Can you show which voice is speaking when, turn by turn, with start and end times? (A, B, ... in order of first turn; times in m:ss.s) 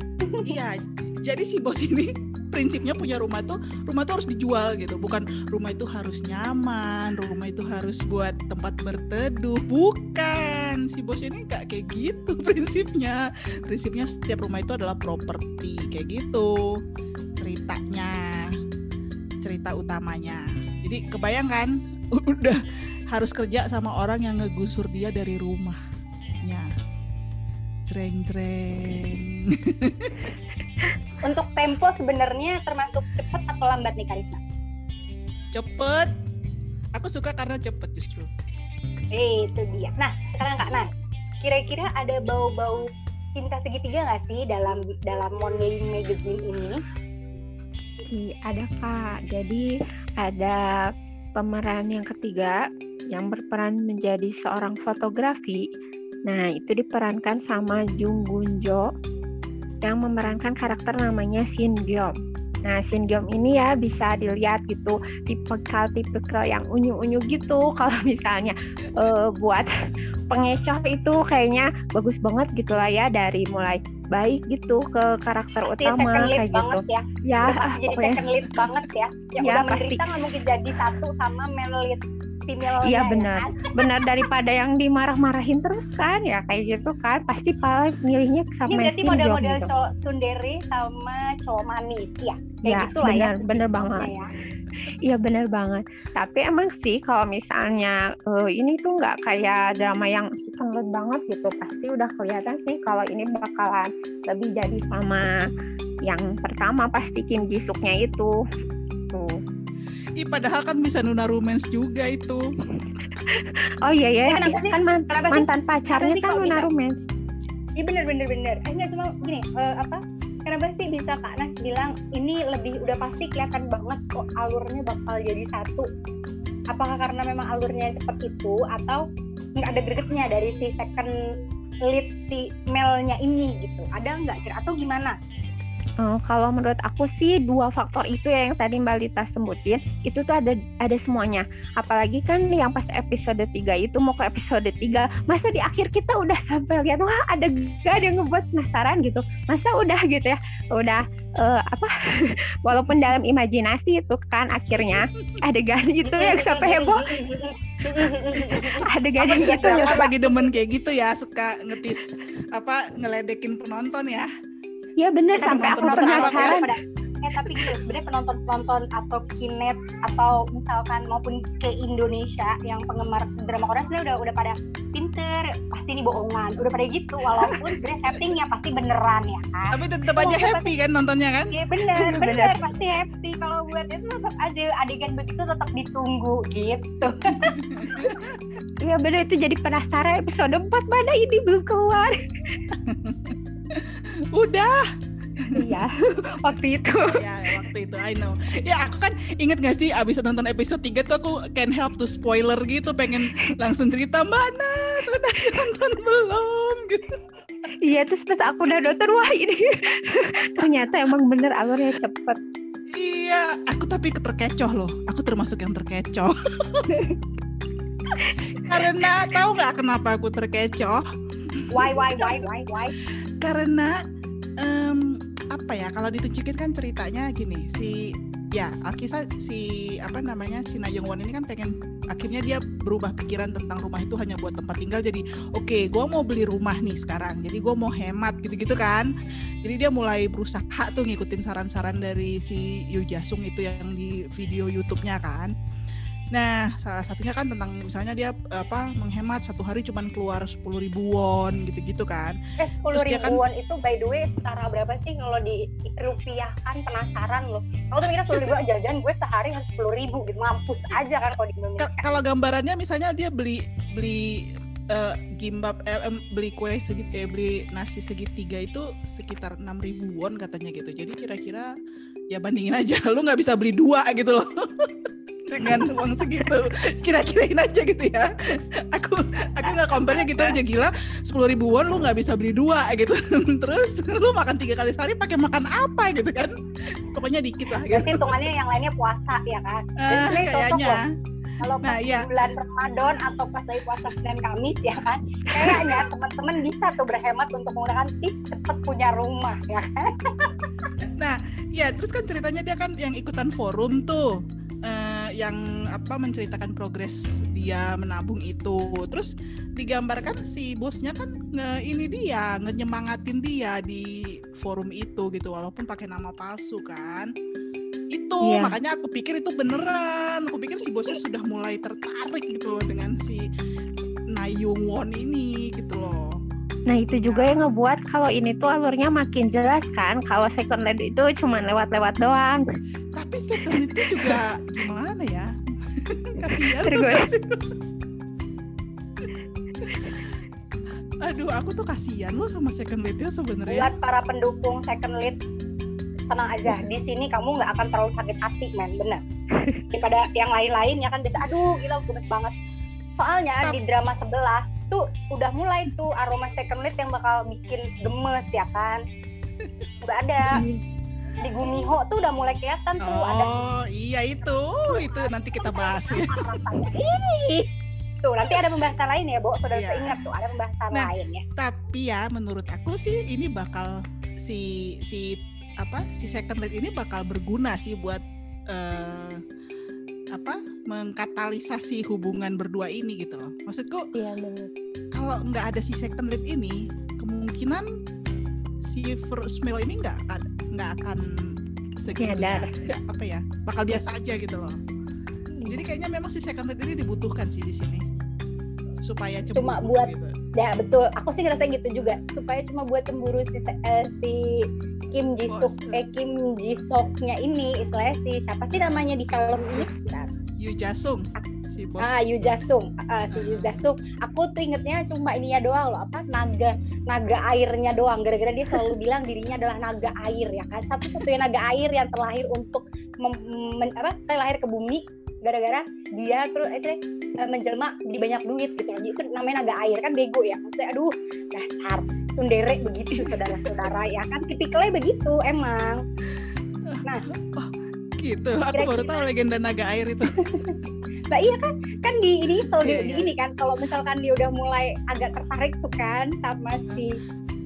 0:00.2-0:00.5 A
0:00.4-0:16.8 B
0:17.4-0:18.5 B
0:19.4-0:22.6 B
0:23.1-0:25.8 B
0:26.4-0:26.7 B
0:27.9-0:30.3 B
0:31.2-0:34.4 A
0:35.5-0:36.1 B
0:36.9-0:38.3 B
0:39.1-0:46.8 A
0:48.1-0:49.6 C
0:50.2-0:52.6 C
0:53.1-0:55.6 C
0:56.2-0:58.9 C
0:59.8-1:02.1 C
1:02.6-1:09.7 C
1:10.3-1:18.2 C
1:15.6-1:24.2 A
1:19.4-1:20.4 C
1:22.8-1:29.7 C
1:28.7-1:34.3 A
1:32.6-1:34.1 C
1:34.8-1:45.3 C
1:46.0-1:48.3 C
1:49.1-1:49.4 C
1:50.2-1:52.4 B
1:53.1-1:57.0 C
1:54.3-1:56.6 A
1:57.8-2:05.9 A
2:06.7-2:09.0 A
2:09.6-2:11.1 A
2:11.8-2:15.2 A
2:16.0-2:37.3 C
2:36.0-2:40.5 A
2:37.9-2:40.1 C
2:39.4-2:44.3 B
2:45.0-2:46.7 C
2:45.4-3:00.7 A
2:45.4-2:46.6 B
2:59.7-3:01.6 B
3:01.5-3:07.6 A
3:01.9-3:02.6 C
3:07.3-3:08.4 B
3:08.8-3:12.6 C
3:12.8-3:14.8 B
3:15.4-3:15.7 B
3:15.5-3:17.2 C
3:17.1-3:27.2 B
3:27.8-3:32.4 C
3:32.9-3:37.0 B
3:38.2-3:39.1 C
3:38.5-3:42.2 B
3:41.7-3:42.9 A
3:43.4-3:43.9 B
3:44.6-3:59.1 B
3:59.6-4:05.5 B
4:06.3-4:12.4 B
4:12.6-4:22.1 A
4:12.9-4:13.4 B
4:21.8-4:31.7 B
4:32.3-4:38.3 B
4:38.9-4:48.5 B
4:40.2-4:40.5 A
4:47.8-4:51.0 A
4:50.0-4:51.0 B
4:51.6-5:00.7 A
4:51.8-4:52.3 B
4:55.6-4:55.9 C
5:01.2-5:04.3 B
5:04.8-5:17.3 B
5:18.1-5:23.4 B
5:18.4-5:18.8 C
5:24.3-5:26.3 B
5:26.9-5:32.6 C
5:27.3-5:27.6 B
5:33.2-5:37.7 B
5:33.7-5:34.4 C
5:36.4-5:37.3 C
5:39.8-5:40.4 B
5:41.2-5:43.9 B
5:43.7-5:45.4 A
5:46.3-5:49.2 A
5:49.5-5:49.8 C
5:49.9-5:52.5 A
5:53.2-5:59.0 A
6:00.0-6:00.6 A
6:01.4-6:03.5 A
6:03.0-6:06.9 B
6:04.9-6:07.7 A
6:08.2-6:11.4 A
6:09.7-6:10.2 B
6:10.9-6:19.4 B
6:20.3-6:24.1 B
6:24.1-6:24.7 C
6:25.1-6:27.9 B
6:28.8-6:34.8 B
6:32.1-6:32.9 C
6:35.5-6:35.8 C
6:35.6-6:38.0 B
6:39.0-6:40.3 B
6:39.5-6:50.3 A
6:45.5-6:46.0 B
6:50.6-6:52.2 B
6:52.0-7:16.0 A
6:53.3-6:53.8 B
7:16.9-7:20.4 B
7:18.7-7:19.2 A
7:20.3-7:20.8 A
7:21.3-7:27.2 A
7:22.8-7:23.3 B